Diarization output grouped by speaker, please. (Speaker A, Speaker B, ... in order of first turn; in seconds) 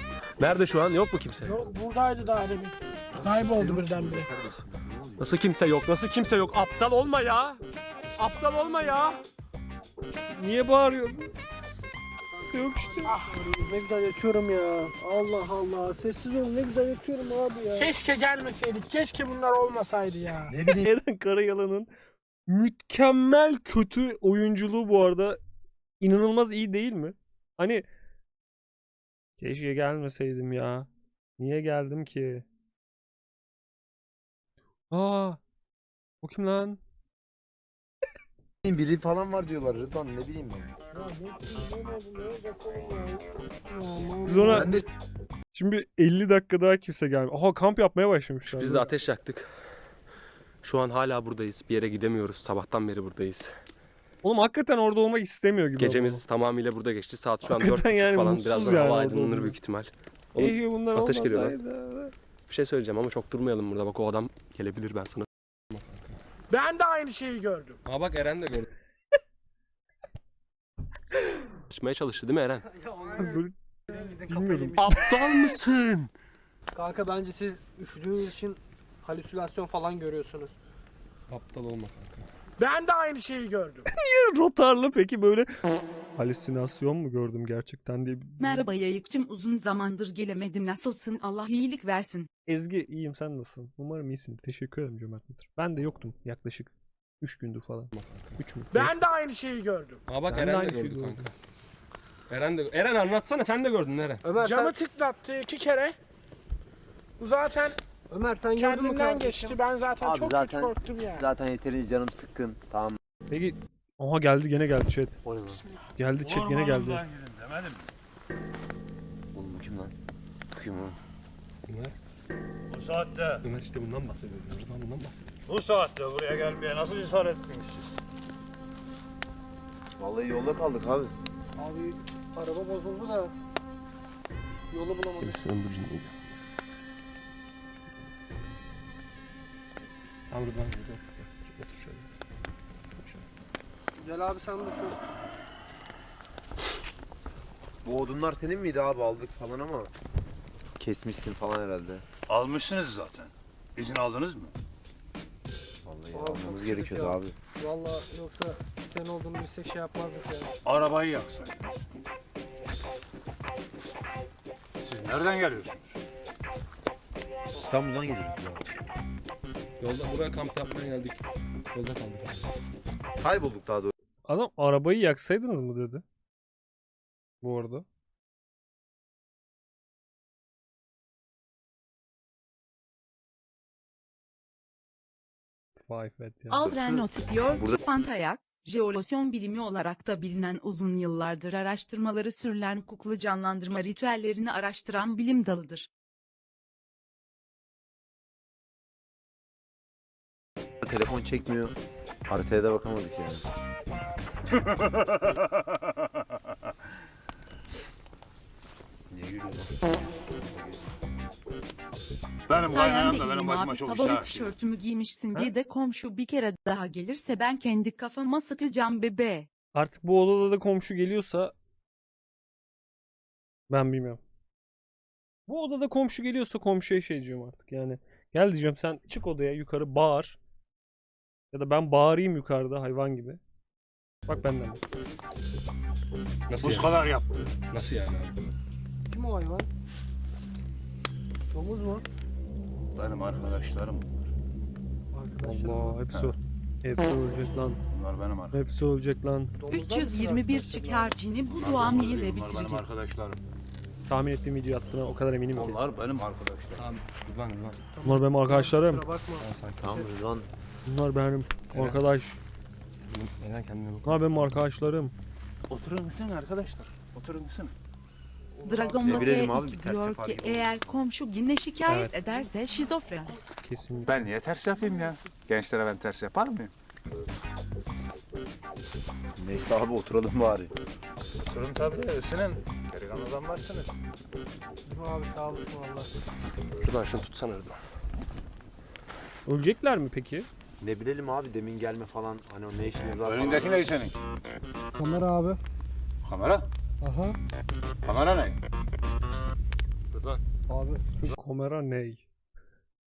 Speaker A: 0.4-1.6, 5.2-7.6, 8.2-9.2, 48.5-49.5, 50.6-53.5, 55.8-61.6, 62.5-66.2, 67.9-68.7, 71.7-72.7, 74.8-76.1, 81.3-82.3, 97.9-98.4, 100.1-101.3, 102.3-104.2, 121.7-122.0, 123.4-125.4, 135.1-136.2, 140.3-142.1, 143.0-143.3, 169.8-172.5, 236.5-237.0, 237.7-238.6, 256.8-257.8, 259.4-260.1, 261.7-262.0, 263.1-264.2, 286.8-287.8, 300.1-300.4
Speaker B: 1.4-4.3, 13.0-13.5, 17.7-20.6, 66.5-67.8, 82.6-83.9, 98.7-100.0, 104.3-106.0, 107.2-107.8, 108.5-111.2
Speaker C: 3.2-5.3, 20.5-20.9, 38.6-40.7, 44.4-44.9, 110.0-113.0, 115.2-115.6, 119.3-119.9, 120.5-121.0, 130.0-131.1, 147.8-149.9, 150.8-152.0, 155.9-157.4, 167.6-168.7, 173.2-173.9, 186.7-187.8, 200.8-201.8, 202.3-203.4, 209.1-210.9, 259.8-260.5, 269.0-271.0, 279.4-280.7, 290.8-294.0
Speaker D: 10.3-11.3, 12.5-13.2, 20.7-21.9, 22.5-25.4, 26.0-27.9, 29.4-32.5, 34.9-35.4, 36.2-36.8, 44.2-44.8, 45.5-48.9, 54.2-56.2, 57.4-59.6, 60.4-62.1, 73.2-75.4, 83.9-88.7, 92.5-99.0, 100.3-101.3, 113.3-115.2, 116.0-117.0, 174.3-176.0, 177.4-177.9, 185.8-186.7, 219.8-221.5, 223.7-224.2, 225.5-230.4, 231.5-233.4, 234.3-234.8, 245.4-247.8, 248.5-249.5, 254.1-255.8, 258.0-259.1, 260.9-262.4, 264.0-265.1, 271.9-272.1, 273.6-274.3, 289.5-290.5, 301.3-302.2
Speaker E: 12.3-17.9, 40.9-44.8, 72.8-75.0, 76.7-80.5, 104.2-104.8, 108.1-109.6, 131.6-133.3, 134.7-135.4, 144.0-145.0, 156.1-160.5, 239.1-239.7, 241.5-242.1, 245.1-246.1, 249.6-251.1, 257.9-259.5, 268.7-269.1, 284.9-286.1, 294.9-295.6, 297.0-297.4, 300.7-301.4
Speaker F: 88.4-92.3, 186.5-195.9, 212.6-219.5, 249.7-252.8, 268.6-273.4
Speaker G: 116.2-117.9, 122.7-123.4, 125.5-128.0, 152.3-154.5, 160.7-161.8, 164.8-165.9, 204.5-205.5, 212.5-214.6, 236.6-237.5, 242.9-244.1, 246.1-246.3, 247.9-248.6, 251.5-253.4, 255.5-256.9, 265.7-267.7, 274.1-276.7, 281.5-283.9, 293.2-294.1, 296.2-296.7, 298.1-298.6